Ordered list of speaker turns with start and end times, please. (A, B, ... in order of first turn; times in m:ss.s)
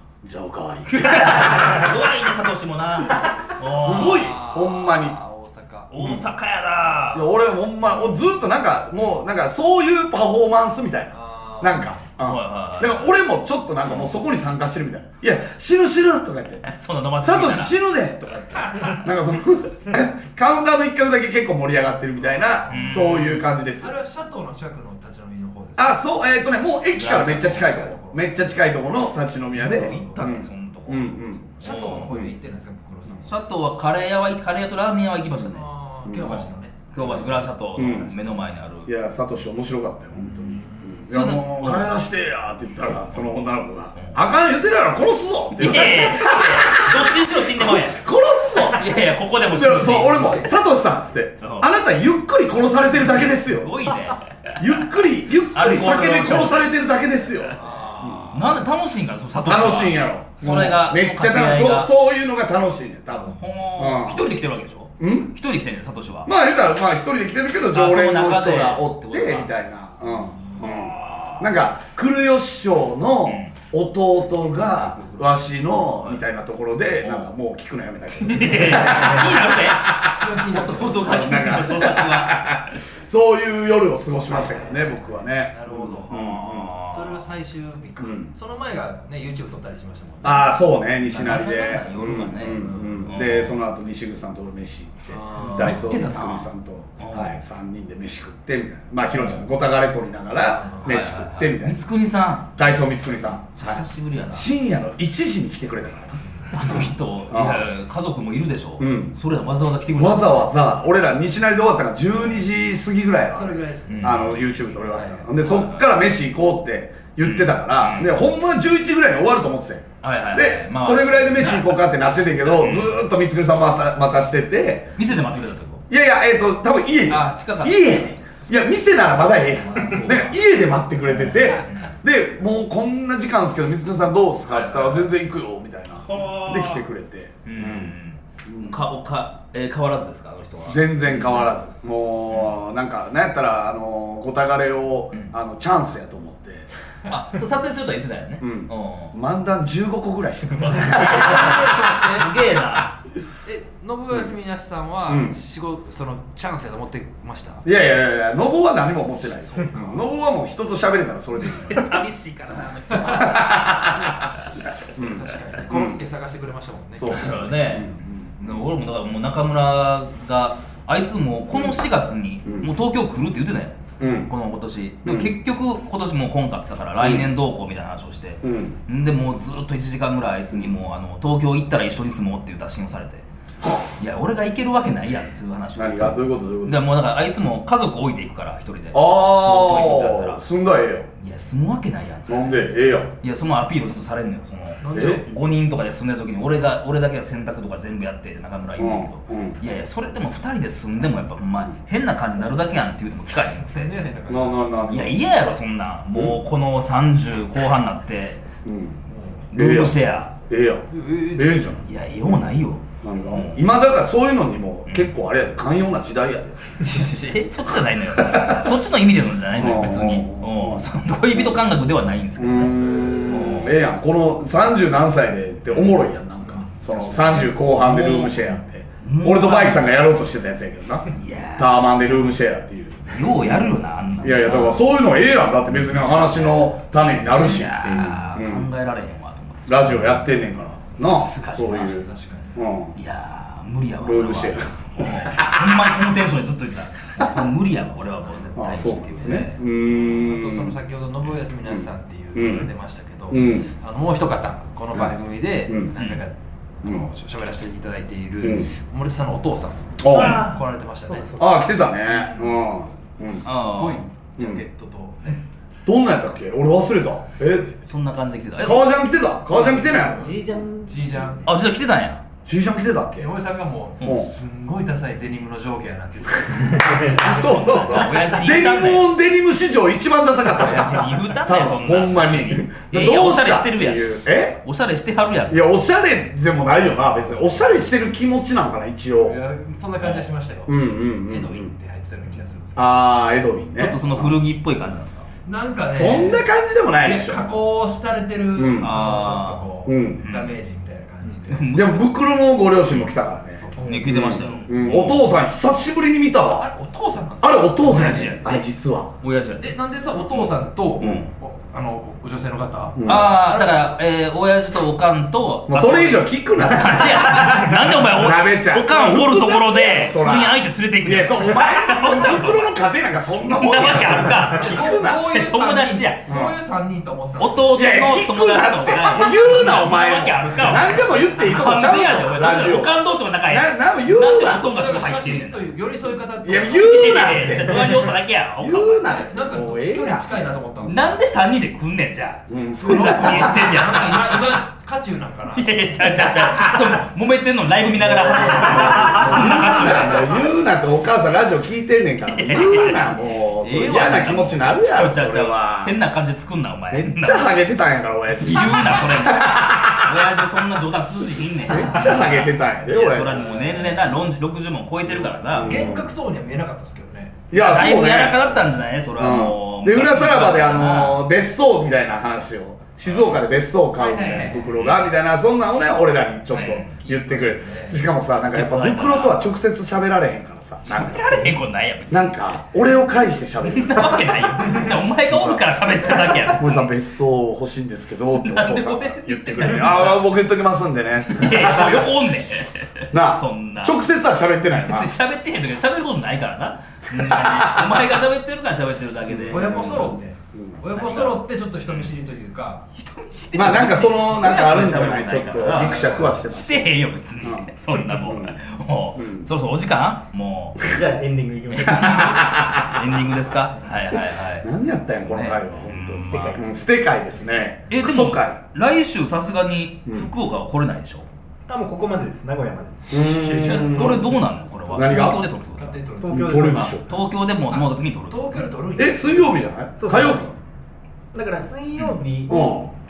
0:00.2-0:01.9 A
0:00.9-0:04.4 B
0:03.6-0:05.2 A
0:04.0-0:05.9 C
0:05.9-0:07.4 B
0:05.9-0:06.2 A
0:07.1-0:16.7 A
0:07.9-0:08.2 B
0:11.1-0:12.0 C
0:12.2-0:13.1 B
0:16.6-0:17.8 B
0:17.2-0:24.0 A
0:22.5-0:25.9 C
0:22.7-0:23.4 B
0:25.8-0:32.3 A
0:26.9-0:27.8 B
0:27.0-0:28.6 C
0:29.6-0:30.3 C
0:29.6-0:32.1 B
0:31.6-0:33.4 C
0:33.2-0:35.6 B
0:35.4-0:36.9 C
0:36.0-0:36.3 A
0:36.2-0:38.9 B
0:37.8-0:38.1 A
0:38.8-0:48.9 A
0:40.2-0:41.0 C
0:41.1-0:41.9 B
0:45.5-0:48.0 B
0:48.7-0:50.5 B
0:49.4-0:53.7 A
0:51.4-0:51.7 B
0:53.0-0:54.8 B
0:54.6-0:58.3 A
0:55.5-0:56.7 B
0:57.5-0:58.5 C
0:58.3-1:01.9 B
0:59.4-1:04.3 A
1:03.1-1:06.3 B
1:05.0-1:05.3 A
1:06.2-1:20.1 A
1:07.7-1:09.5 B
1:10.6-1:11.4 B
1:13.2-1:13.5 B
1:17.0-1:17.3 B
1:18.1-1:22.6 B
1:19.9-1:21.3 C
1:21.0-1:26.7 A
1:24.3-1:24.9 C
1:25.5-1:26.3 C
1:26.1-1:27.2 B
1:26.8-1:30.5 C
1:28.0-1:28.3 A
1:30.2-1:41.8 A
1:31.0-1:33.5 B
1:32.6-1:33.0 C
1:35.1-1:35.8 C
1:35.4-1:37.3 B
1:40.4-1:40.9 C
1:40.8-1:42.6 B
1:42.5-1:47.7 A
1:43.5-1:44.5 B
1:46.5-1:50.4 B
1:48.8-1:49.1 A
1:49.9-2:05.0 A
1:53.3-1:55.3 C
1:53.9-1:54.4 B
1:55.4-1:55.8 B
1:57.2-1:58.1 B
2:00.0-2:01.8 B
2:02.5-2:03.0 B
2:05.0-2:05.8 B
2:05.9-2:18.8 A
2:07.1-2:08.1 B
2:09.7-2:10.3 B
2:11.2-2:11.9 B
2:14.5-2:15.1 B
2:16.0-2:16.8 B
2:17.4-2:21.5 B
2:20.7-2:26.7 A
2:22.3-2:22.6 B
2:27.1-2:29.1 B
2:28.4-2:31.7 A
2:30.8-2:32.6 C
2:31.2-2:33.0 B
2:33.4-2:37.6 C
2:35.1-2:35.4 A
2:37.6-2:42.0 A
2:39.4-2:40.0 C
2:41.6-2:44.1 B
2:43.0-2:44.1 A
2:45.0-2:46.0 A
2:45.0-2:47.5 C
2:47.0-2:48.7 A
2:47.1-3:03.2 B
2:54.0-2:54.3 A
2:55.0-2:55.3 A
2:57.0-2:57.3 A
2:58.4-2:58.8 A
3:04.0-3:10.4 B
3:05.8-3:06.8 A
3:08.9-3:11.1 A
3:11.2-3:23.9 B
3:12.3-3:13.1 A
3:14.8-3:15.2 C
3:14.9-3:15.2 A
3:18.8-3:19.6 A
3:23.6-3:24.7 C
3:24.3-3:25.2 A
3:24.9-3:28.4 B
3:28.6-3:29.0 A
3:29.1-3:29.5 C
3:29.5-3:29.9 A
3:29.5-3:30.3 B
3:30.5-3:31.9 A
3:30.9-3:31.8 C
3:31.8-3:33.7 B
3:33.0-3:36.8 A
3:36.8-3:43.8 B
3:38.2-3:38.6 A
3:39.5-3:40.8 A
3:42.4-3:58.7 A
3:47.1-3:48.5 B
3:49.0-3:50.0 B
3:51.1-3:51.9 B
3:53.1-3:54.8 B
3:57.2-4:00.3 B
3:59.7-4:03.0 A
4:01.0-4:02.0 B
4:01.8-4:02.6 C
4:03.0-4:09.6 B
4:04.0-4:05.6 A
4:08.6-4:10.7 A
4:10.1-4:21.4 C
4:11.7-4:12.7 A
4:13.3-4:13.7 A
4:15.7-4:15.9 A
4:16.0-4:16.2 B
4:18.4-4:18.7 A
4:20.0-4:20.5 A
4:20.1-4:21.6 D
4:21.4-4:23.5 A
4:23.3-4:25.4 C
4:23.4-4:24.0 B
4:24.4-4:24.6 A
4:25.8-4:27.7 A
4:27.8-4:28.9 B
4:28.6-4:30.3 A
4:29.5-4:30.3 C
4:30.1-4:31.4 D
4:30.8-4:31.5 C
4:31.4-4:32.2 B
4:32.4-4:33.3 A
4:33.2-4:38.0 C
4:34.0-4:34.3 A
4:36.7-4:37.4 D
4:37.1-4:44.6 A
4:37.6-4:39.1 B
4:40.5-4:45.7 B
4:45.5-4:49.4 A
4:49.2-4:50.7 C
4:50.7-4:51.7 A
4:51.2-4:53.0 C
4:52.8-4:54.4 A
4:53.8-4:55.3 B
4:55.4-4:56.5 C
4:55.9-4:57.4 A
4:57.0-5:01.7 C
4:58.6-4:58.9 A
4:58.8-5:00.5 B
4:59.8-5:00.2 A
5:01.5-5:02.1 B
5:01.7-5:06.7 A
5:03.5-5:04.9 C
5:03.8-5:05.3 B
5:06.4-5:07.9 C
5:07.4-5:09.1 A
5:07.8-5:08.6 B
5:09.2-5:09.8 B
5:09.6-5:13.8 C
5:11.0-5:11.3 B
5:13.0-5:13.4 A
5:13.0-5:22.7 B
5:15.7-5:25.2 A
5:23.4-5:26.3 B
5:24.5-5:27.7 C
5:26.3-5:26.5 A
5:27.4-5:35.7 B
5:27.7-5:34.6 A
5:34.6-5:37.5 C
5:36.4-5:40.3 A
5:36.7-5:39.2 B
5:39.0-5:41.2 C
5:40.8-5:44.6 B
5:42.5-5:43.7 A
5:42.8-5:46.1 C
5:45.6-5:50.4 B
5:48.0-5:56.0 A
5:48.3-5:49.2 C
5:52.3-5:53.0 B
5:53.6-5:54.5 C
5:54.0-5:57.5 B
5:57.1-6:00.4 A
5:58.4-6:05.9 B
6:01.7-6:03.5 A
6:01.7-6:02.1 C
6:03.3-6:04.0 C
6:05.4-6:06.1 A
6:05.6-6:07.4 C
6:07.5-6:08.6 A
6:07.5-6:11.3 B
6:09.2-6:21.4 A
6:13.1-6:13.4 B
6:13.9-6:14.6 C
6:14.6-6:15.1 B
6:16.5-6:16.9 B
6:16.5-6:18.0 C
6:18.5-6:19.4 B
6:20.9-6:22.7 B
6:22.1-6:32.1 A
6:23.6-6:26.9 B
6:28.3-6:30.3 B
6:31.2-6:34.0 B
6:33.1-6:35.1 A
6:34.7-6:40.1 B
6:37.1-6:37.9 A
6:39.3-6:40.8 A
6:39.5-6:42.9 C
6:40.9-6:42.1 B
6:42.9-6:50.8 B
6:43.5-6:48.6 A
6:45.7-6:46.3 C
6:49.2-6:49.5 A
6:50.9-6:52.5 D
6:51.7-6:54.7 B
6:51.8-6:53.0 A
6:54.6-6:58.6 A
6:55.3-6:56.6 B
6:56.3-6:56.7 D
6:57.9-7:01.3 B
7:01.7-7:03.4 D
7:03.1-7:04.3 A
7:03.4-7:04.3 C
7:03.6-7:06.0 B
7:04.9-7:05.4 A
7:05.8-7:07.0 C
7:06.2-7:06.9 D
7:06.3-7:07.1 A
7:06.9-7:08.7 B
7:07.7-7:09.6 C
7:09.0-7:10.6 A
7:10.0-7:10.5 D
7:11.3-7:12.9 D
7:12.5-7:12.9 A